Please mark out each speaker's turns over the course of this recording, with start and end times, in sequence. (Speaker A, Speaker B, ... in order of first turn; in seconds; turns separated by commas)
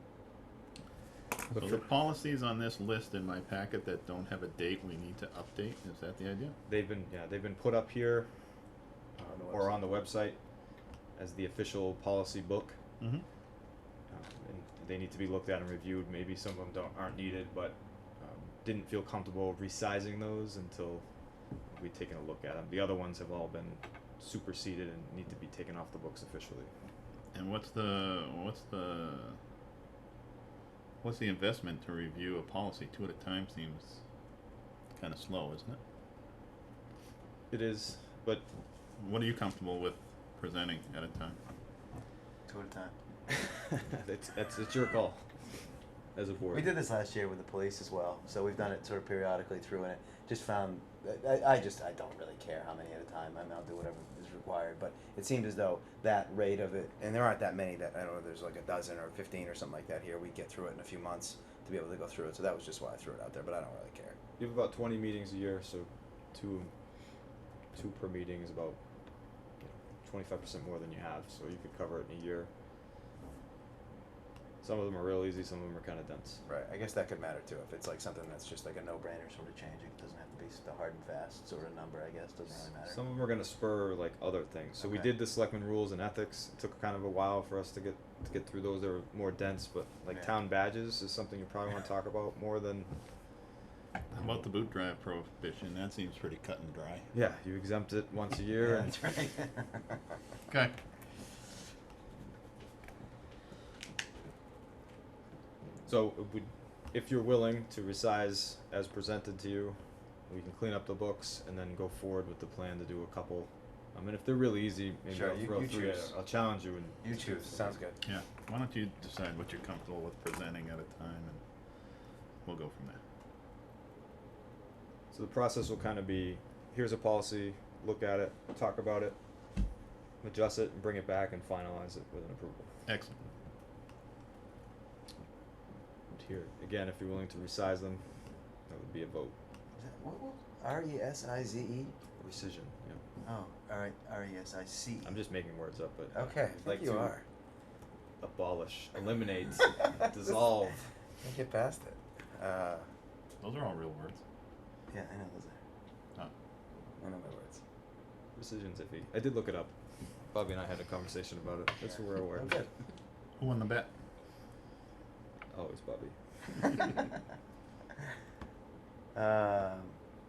Speaker A: 1.5-1.8, Speaker B: 1.5-6.5, Speaker A: 6.7-8.3, Speaker C: 9.2-9.9, Speaker A: 9.5-10.4, Speaker A: 11.2-12.8, Speaker B: 13.0-13.2, Speaker A: 14.1-21.0, Speaker A: 21.7-26.7, Speaker B: 27.3-29.4, Speaker B: 31.0-34.0, Speaker B: 34.9-35.8, Speaker A: 37.5-38.5, Speaker B: 39.0-41.4, Speaker C: 42.5-42.9, Speaker A: 43.8-45.2, Speaker A: 46.1-46.7, Speaker C: 46.5-64.2, Speaker A: 64.4-66.7, Speaker A: 67.7-68.8, Speaker A: 69.6-72.5, Speaker A: 74.6-76.4, Speaker C: 76.5-83.0, Speaker A: 82.8-92.9, Speaker C: 84.8-85.1, Speaker B: 94.1-97.1, Speaker A: 94.2-94.4, Speaker A: 97.1-99.0, Speaker C: 98.6-100.0, Speaker B: 100.5-100.7, Speaker A: 105.8-117.8, Speaker C: 115.1-116.1, Speaker C: 117.0-118.0, Speaker B: 118.0-121.4, Speaker B: 122.4-123.0, Speaker A: 125.1-129.2, Speaker A: 130.2-132.7, Speaker B: 132.9-133.2, Speaker A: 136.2-138.0, Speaker A: 138.7-139.3, Speaker C: 139.7-141.9, Speaker A: 142.2-143.0, Speaker C: 143.2-145.2, Speaker A: 145.0-147.1, Speaker C: 146.1-147.2, Speaker A: 148.2-150.9, Speaker C: 151.2-152.9, Speaker B: 153.4-154.2, Speaker C: 154.9-155.6, Speaker C: 157.0-157.6, Speaker A: 158.3-159.7, Speaker A: 160.3-162.6, Speaker C: 162.3-162.7, Speaker B: 163.4-163.9, Speaker A: 165.5-166.8, Speaker C: 169.1-170.0